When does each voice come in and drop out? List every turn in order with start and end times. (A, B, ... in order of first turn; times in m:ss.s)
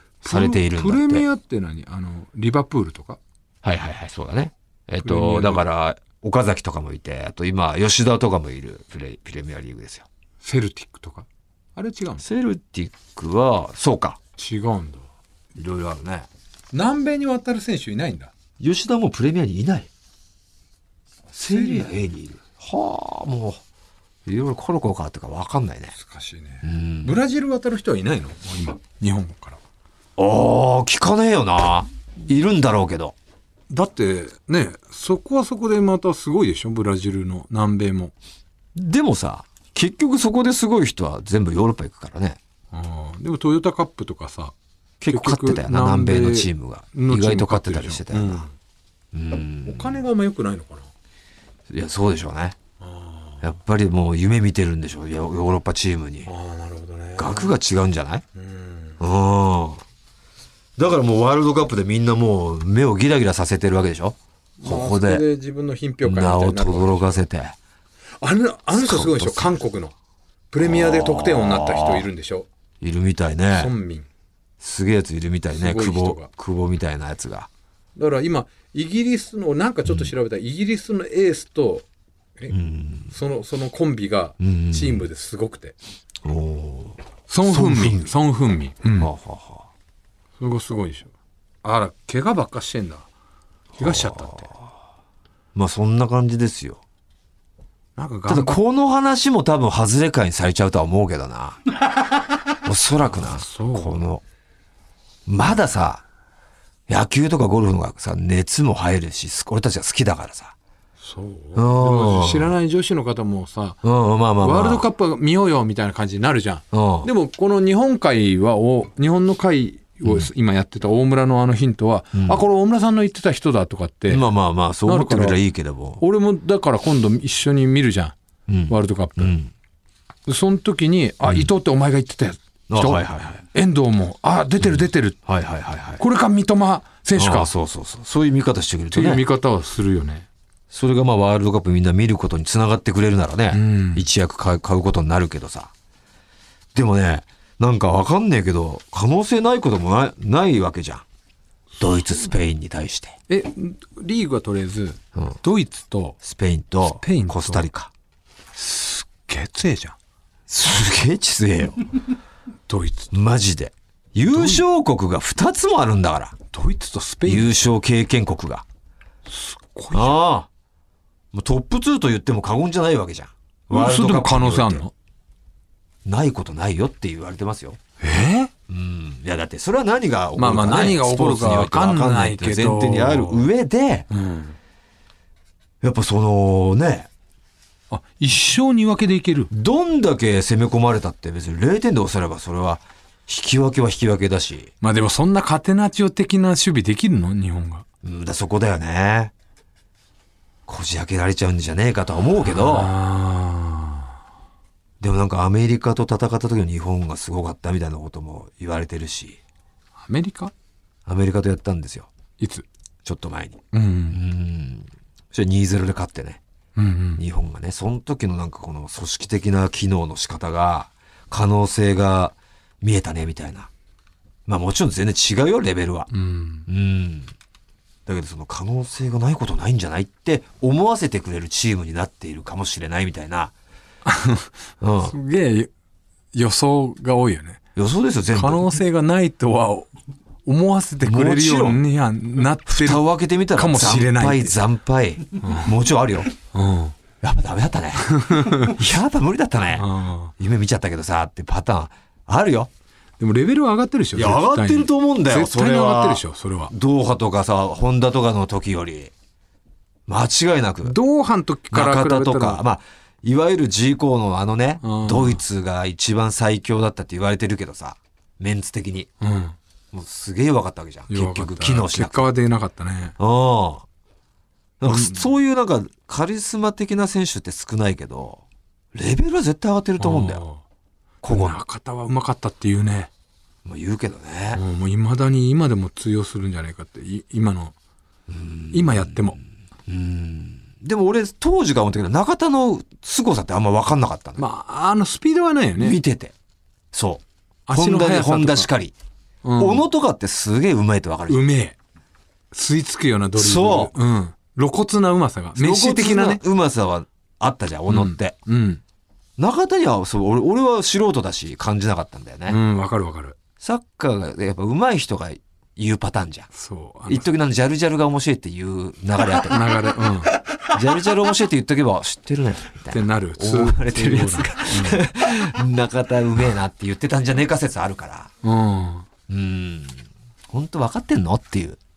0:00.2-0:03.2 A
0:00.2-0:01.3 B
0:03.6-0:10.1 B
0:05.0-0:05.7 A
0:10.4-0:12.2 A
0:12.2-0:14.2 B
0:14.4-0:15.1 A
0:15.6-0:16.3 B
0:16.7-0:18.3 A
0:18.6-0:19.9 B
0:21.3-0:23.6 B
0:21.5-0:21.9 A
0:24.3-0:26.0 B
0:26.0-0:29.6 A
0:26.6-0:27.2 B
0:30.2-0:33.2 B
0:33.7-0:38.1 A
0:38.8-0:42.4 B
0:42.7-0:44.5 A
0:45.0-0:48.5 B
0:45.1-0:48.5 A
0:49.1-0:50.0 B
0:49.6-0:50.9 A
0:51.7-0:52.6 B
0:52.8-0:53.4 A
0:53.4-0:56.3 B
0:56.3-0:57.6 A
0:57.2-0:58.2 B
0:58.4-0:59.0 A
0:59.0-0:59.8 B
1:00.8-1:05.3 B
1:04.6-1:07.2 A
1:06.0-1:07.6 B
1:08.2-1:09.9 A
1:08.7-1:09.6 B
1:10.5-1:12.5 A
1:10.6-1:12.1 B
1:12.8-1:13.7 B
1:13.5-1:14.1 A
1:14.6-1:17.5 B
1:15.5-1:16.3 A
1:18.0-1:21.9 A
1:22.5-1:23.1 B
1:23.1-1:25.8 A
1:24.4-1:25.1 B
1:26.2-1:28.2 B
1:27.3-1:29.1 A
1:29.0-1:29.7 B
1:30.4-1:31.1 A
1:31.6-1:33.1 A
1:33.8-1:34.5 A
1:33.8-1:34.6 B
1:35.6-1:36.8 B
1:38.0-1:38.6 A
1:38.3-1:41.6 B
1:42.6-1:44.2 B
1:43.1-1:44.0 A
1:45.3-1:46.0 B
1:46.9-1:50.5 B
1:51.0-1:53.8 A
1:51.6-1:52.5 B
1:53.8-1:54.8 B
1:54.4-2:04.3 A
1:56.7-1:57.1 B
2:02.1-2:02.4 B
2:04.1-2:06.0 B
2:04.9-2:05.4 A
2:06.0-2:08.2 A
2:08.5-2:09.5 B
2:08.7-2:09.4 A
2:10.3-2:15.2 A
2:12.7-2:13.4 B
2:14.6-2:16.0 B
2:16.0-2:17.5 A
2:17.2-2:19.2 B
2:18.9-2:20.3 A
2:20.7-2:25.7 B
2:23.5-2:24.1 A
2:26.8-2:31.0 B
2:31.8-2:33.2 B
2:33.3-2:36.2 A
2:36.2-2:37.9 B
2:37.0-2:37.7 A
2:38.6-2:40.0 A
2:40.5-2:41.8 B
2:42.7-2:43.1 A
2:43.1-2:46.4 B
2:44.3-2:44.6 A
2:46.5-2:47.6 A
2:47.2-2:48.6 B
2:49.3-2:50.2 A
2:49.9-2:50.5 B
2:51.3-2:54.8 B
2:53.7-2:54.9 A
2:56.0-2:57.8 B
2:58.0-2:58.5 A
2:58.7-3:04.1 B
3:00.4-3:03.5 A
3:04.1-3:04.6 A
3:05.8-3:07.1 B
3:07.9-3:09.5 A
3:09.5-3:14.7 B
3:14.8-3:17.8 A
3:18.0-3:19.3 B
3:20.7-3:22.9 B
3:22.4-3:24.2 A
3:25.0-3:29.4 B
3:30.0-3:30.5 A
3:31.1-3:32.1 B
3:32.4-3:32.7 A
3:33.0-3:36.4 B
3:33.7-3:34.2 A
3:36.8-3:37.2 A
3:37.2-3:43.7 B
3:44.5-3:46.1 B
3:46.1-3:46.7 A
3:46.7-3:47.3 B
3:48.1-3:53.5 B
3:54.0-3:54.5 A
3:54.8-3:55.2 B
3:55.0-3:55.7 A
3:56.3-3:57.6 A
3:57.8-3:58.7 B
3:58.3-3:59.9 A
4:00.4-4:04.6 A
4:01.0-4:01.8 B
4:02.7-4:06.3 B
4:05.4-4:05.7 A
4:06.4-4:07.0 A
4:07.2-4:12.7 B
4:08.0-4:08.8 A
4:09.8-4:10.3 A
4:13.2-4:16.7 A
4:14.2-4:19.1 B
4:20.1-4:21.0 B
4:20.8-4:22.6 A
4:21.7-4:29.1 B
4:24.8-4:25.4 A
4:29.2-4:29.6 A
4:29.9-4:32.3 B
4:31.1-4:33.2 A
4:33.2-4:33.8 B
4:34.8-4:38.4 B
4:34.8-4:35.3 A
4:38.9-4:40.4 B
4:40.0-4:40.6 A
4:41.2-4:41.6 B
4:41.2-4:43.1 A
4:43.6-4:44.6 B
4:44.6-4:47.7 A
4:48.3-4:49.2 B
4:48.7-4:49.4 A
4:49.9-4:54.4 B
4:54.4-4:56.0 A
4:55.8-4:56.3 B
4:56.9-4:58.9 B
4:57.7-4:58.7 A
4:59.4-4:59.8 A
4:59.6-5:01.5 B
5:01.3-5:01.8 A
5:02.5-5:06.4 A
5:03.4-5:03.9 B
5:05.6-5:08.4 B
5:07.9-5:08.8 A
5:09.4-5:12.6 B
5:12.5-5:13.4 A
5:13.6-5:16.5 B
5:16.5-5:17.3 A
5:17.1-5:19.7 B
5:19.5-5:20.4 A
5:20.7-5:28.3 B
5:22.9-5:25.0 A
5:28.4-5:29.1 A
5:29.3-5:31.8 B